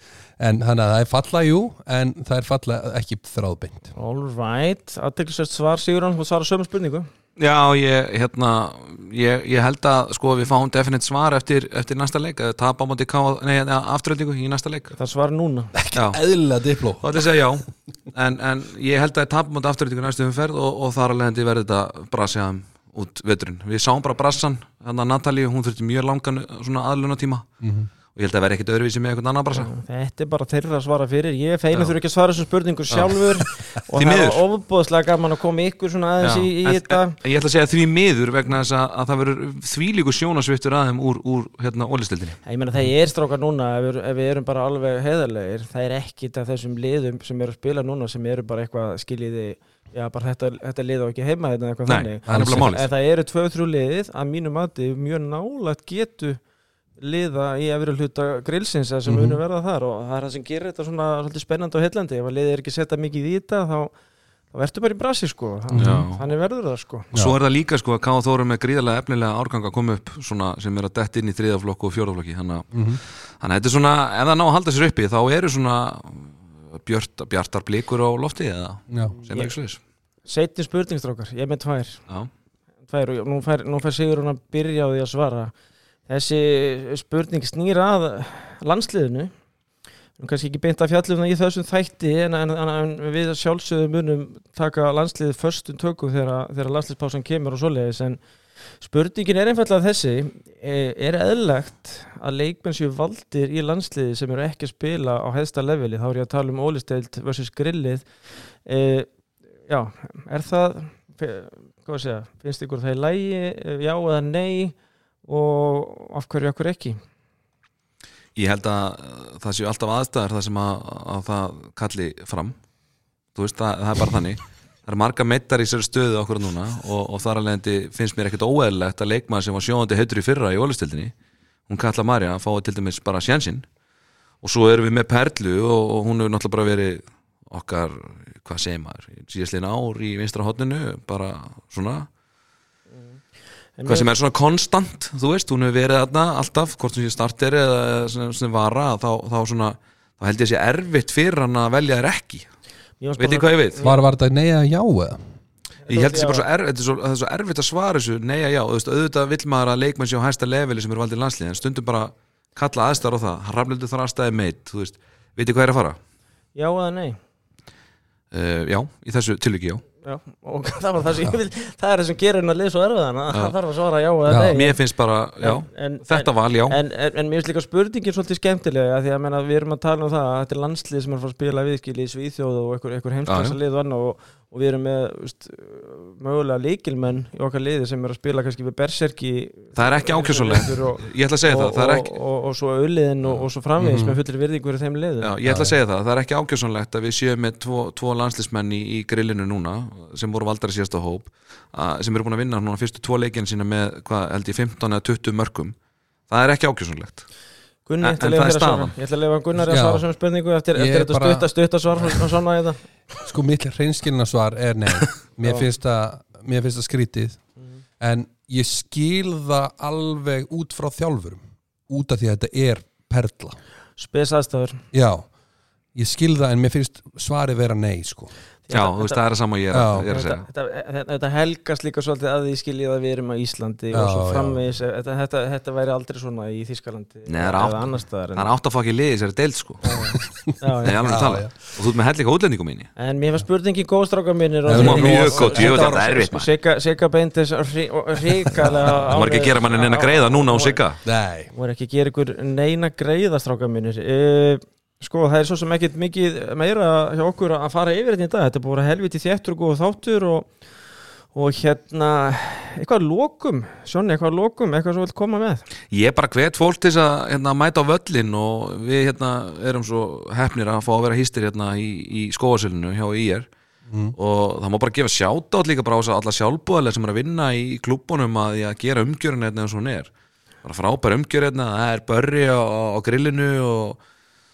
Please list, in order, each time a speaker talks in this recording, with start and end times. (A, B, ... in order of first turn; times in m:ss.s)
0:00.4-0:03.9 A
0:04.0-0:07.1 B
0:07.4-0:14.9 C
0:15.0-0:15.7 B
0:15.8-0:17.2 A
0:15.9-0:16.2 C
0:17.0-0:27.5 C
0:27.6-0:27.9 A
0:28.1-0:29.7 C
0:29.5-0:37.2 B
0:32.9-0:33.4 C
0:33.9-0:34.4 C
0:36.2-0:42.4 C
0:42.4-0:56.4 B
0:51.9-0:52.9 C
0:52.3-0:52.7 A
0:57.0-1:03.9 B
0:59.1-0:59.4 A
1:04.5-1:07.1 B
1:05.7-1:06.0 A
1:05.8-1:06.2 C
1:07.1-1:19.8 C
1:12.7-1:13.0 A
1:18.9-1:19.2 A
1:19.1-1:19.5 B
1:20.2-1:22.0 B
1:22.9-1:25.5 B
1:26.1-1:29.3 B
1:30.2-1:38.2 B
1:38.8-1:48.1 B
1:48.6-1:49.1 B
1:49.7-1:57.0 B
1:58.4-2:02.6 C
2:03.4-2:11.1 C
2:11.7-2:13.7 C
2:14.4-2:22.1 C
2:23.0-2:23.2 B
2:23.8-2:24.1 B
2:23.9-2:32.5 C
2:33.0-2:34.0 B
2:33.2-2:33.8 C
2:33.8-2:35.4 A
2:35.9-2:36.4 B
2:35.9-2:46.0 C
2:46.6-2:47.2 B
2:48.3-2:49.8 C
2:50.0-2:54.8 B
2:54.3-2:54.5 A
2:54.5-2:56.8 C
2:55.4-3:15.3 B
3:03.3-3:03.6 C
3:09.8-3:12.2 C
3:13.8-3:14.2 A
3:15.2-3:25.8 C
3:15.5-3:15.8 A
3:26.3-3:27.3 C
3:27.9-3:32.8 B
3:28.0-3:28.9 C
3:29.6-3:30.0 A
3:30.8-3:32.3 A
3:33.2-3:37.4 A
3:38.0-3:43.6 A
3:44.0-3:44.8 B
3:44.9-3:45.3 A
3:46.0-3:48.3 A
3:48.7-3:49.2 B
3:48.7-3:50.4 C
3:49.7-3:50.1 A
3:50.1-3:58.5 B
3:53.9-3:54.6 A
3:57.3-4:00.0 C
3:59.8-4:01.0 B
4:00.4-4:01.6 A
4:00.8-4:02.9 C
4:03.0-4:10.8 B
4:04.7-4:06.3 A
4:04.7-4:06.5 C
4:09.1-4:11.0 C
4:11.0-4:11.5 A
4:11.5-4:20.6 B
4:21.3-4:25.6 B
4:25.9-4:33.5 C
4:33.9-4:34.2 A
4:34.1-4:40.1 C
4:40.6-4:44.0 C